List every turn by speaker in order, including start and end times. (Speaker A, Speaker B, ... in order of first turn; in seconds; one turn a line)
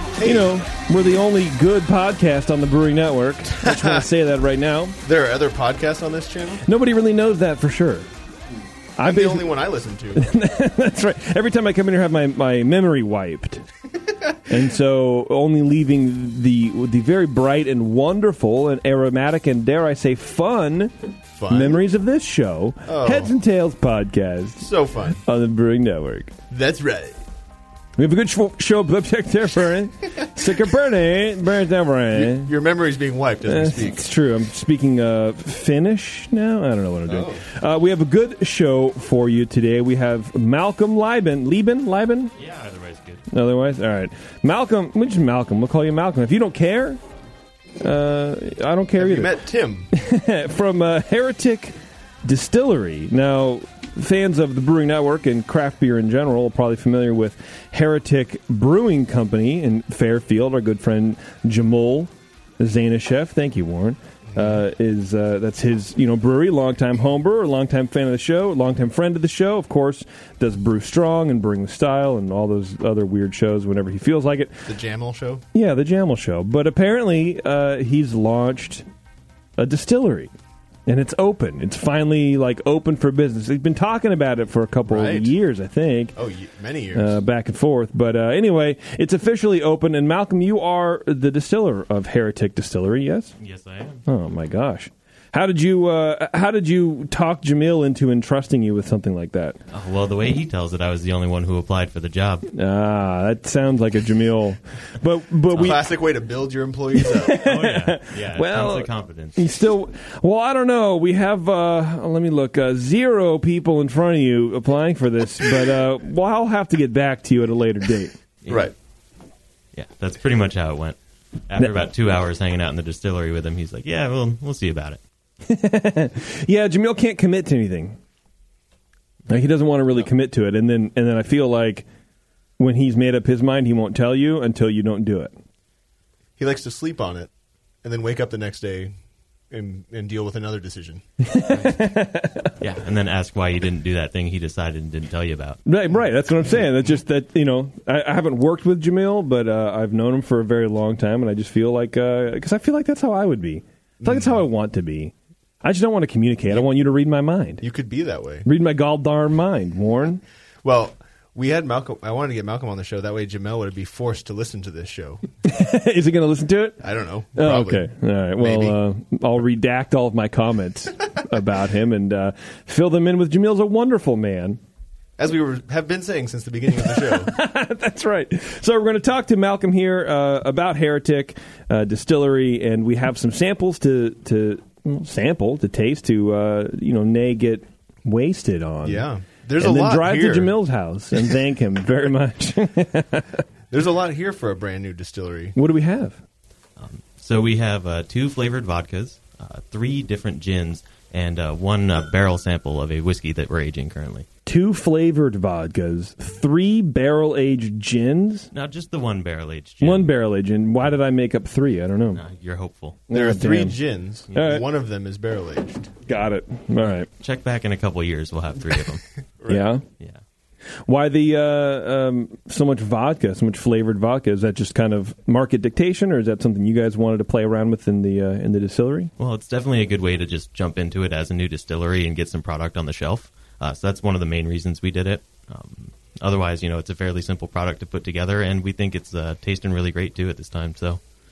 Speaker A: 0.2-0.6
Speaker B: 0.2-5.0
Speaker A: 3.6-4.1
Speaker A: 5.0-6.7
Speaker B: 6.6-8.1
Speaker B: 9.0-9.5
Speaker A: 9.0-10.3
Speaker B: 10.2-13.7
Speaker B: 14.5-20.9
Speaker A: 21.4-21.8
Speaker B: 21.5-24.7
Speaker A: 22.9-23.3
Speaker A: 24.6-25.2
Speaker B: 25.2-26.3
Speaker A: 26.5-27.2
Speaker B: 28.0-32.5
Speaker A: 32.1-34.1
Speaker B: 33.4-42.3
Speaker A: 37.1-37.4
Speaker C: 42.4-43.2
Speaker B: 43.3-47.0
Speaker B: 47.8-49.4
Speaker A: 49.0-49.9
Speaker B: 49.9-74.7
Speaker A: 64.3-64.6
Speaker A: 74.7-75.4
Speaker B: 75.5-78.9
Speaker B: 79.6-80.3
Speaker B: 80.9-86.2
Speaker A: 84.9-85.3
Speaker A: 86.2-87.2
Speaker B: 87.0-93.3
Speaker C: 93.4-94.0
Speaker B: 94.1-99.6
Speaker C: 99.7-102.5
Speaker B: 102.5-105.9
Speaker A: 105.5-107.4
Speaker B: 107.0-118.2
Speaker C: 107.3-109.5
Speaker C: 118.4-118.7
Speaker A: 118.5-118.7
Speaker C: 119.7-125.0
Speaker B: 125.4-128.0
Speaker B: 129.3-131.9
Speaker B: 132.6-135.3
Speaker A: 136.4-137.3
Speaker A: 137.8-138.9
Speaker A: 139.5-141.7
Speaker B: 141.2-142.5
Speaker C: 142.6-145.6
Speaker B: 145.7-157.6
Speaker A: 154.0-154.4
Speaker A: 157.6-158.5
Speaker B: 158.4-160.2
Speaker A: 160.6-165.3
Speaker B: 165.4-166.8
Speaker A: 166.8-168.8
Speaker B: 167.3-174.6
Speaker A: 175.2-177.4
Speaker B: 176.8-189.1
Speaker A: 188.8-190.6
Speaker B: 189.6-193.4
Speaker A: 193.7-195.6
Speaker B: 195.6-196.2
Speaker C: 196.8-204.3
Speaker B: 204.5-208.5
Speaker C: 208.5-210.1
Speaker B: 209.8-212.2
Speaker C: 212.1-213.0
Speaker B: 213.1-213.8
Speaker A: 213.1-216.0
Speaker B: 214.3-214.7
Speaker B: 216.1-217.1
Speaker C: 217.2-219.1
Speaker A: 219.4-219.7
Speaker B: 219.5-219.8
Speaker B: 220.8-229.1
Speaker C: 229.2-241.0